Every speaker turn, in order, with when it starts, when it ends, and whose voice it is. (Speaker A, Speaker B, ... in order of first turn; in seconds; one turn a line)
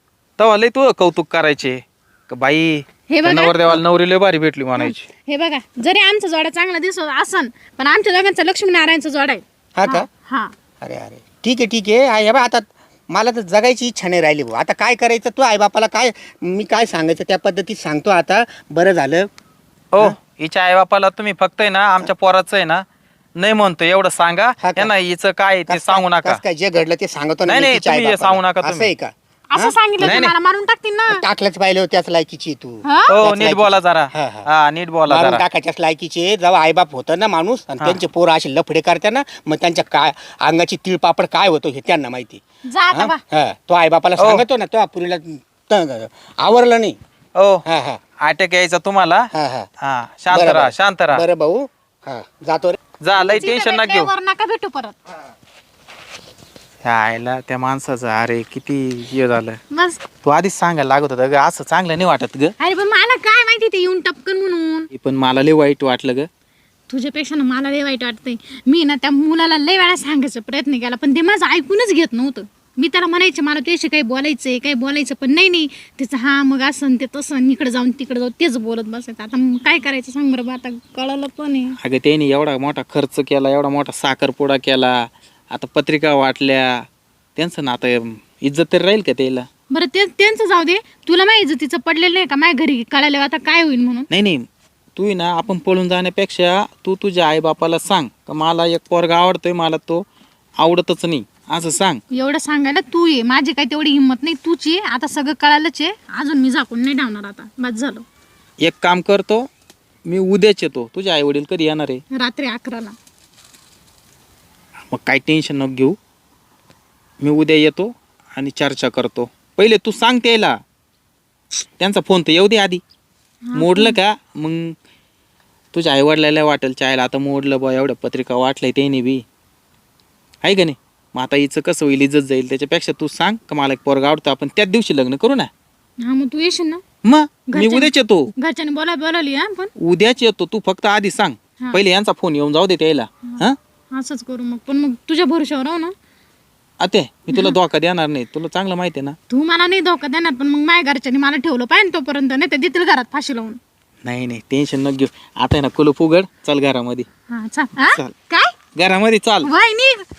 Speaker A: 0.4-5.1
Speaker B: 3.1-3.6
Speaker B: 4.8-10.5
Speaker C: 9.8-10.1
Speaker C: 10.8-19.3
Speaker A: 19.9-22.9
Speaker A: 23.4-26.4
Speaker C: 24.6-24.9
Speaker C: 25.7-30.2
Speaker A: 27.5-28.9
Speaker B: 29.5-31.2
Speaker A: 30.0-30.3
Speaker C: 31.1-34.5
Speaker B: 32.9-33.2
Speaker A: 33.1-35.4
Speaker C: 35.1-47.0
Speaker B: 42.7-43.2
Speaker A: 44.2-44.5
Speaker A: 47.4-47.6
Speaker C: 47.7-48.0
Speaker A: 48.2-51.2
Speaker C: 49.3-49.7
Speaker C: 50.3-52.8
Speaker A: 53.0-54.1
Speaker B: 53.2-55.0
Speaker A: 56.8-59.6
Speaker B: 59.7-60.0
Speaker A: 60.2-62.5
Speaker B: 62.6-64.9
Speaker A: 64.9-66.3
Speaker B: 66.9-81.8
Speaker A: 81.8-89.5
Speaker B: 89.7-94.1
Speaker A: 94.1-100.1
Speaker A: 100.6-102.0
Speaker B: 102.1-108.0
Speaker A: 108.6-109.5
Speaker A: 110.0-112.0
Speaker B: 112.1-113.0
Speaker A: 114.9-116.0
Speaker A: 117.2-120.6
Speaker A: 121.8-122.8
Speaker B: 123.5-124.0
Speaker A: 123.5-124.8
Speaker A: 125.7-129.2
Speaker A: 130.4-135.5
Speaker B: 136.0-136.8
Speaker A: 137.0-138.3
Speaker B: 137.5-139.7
Speaker A: 139.8-143.6
Speaker B: 143.3-145.9
Speaker A: 146.8-149.2
Speaker B: 149.3-153.6
Speaker A: 154.1-157.1
Speaker B: 157.3-158.6
Speaker A: 158.8-159.5
Speaker B: 159.4-160.1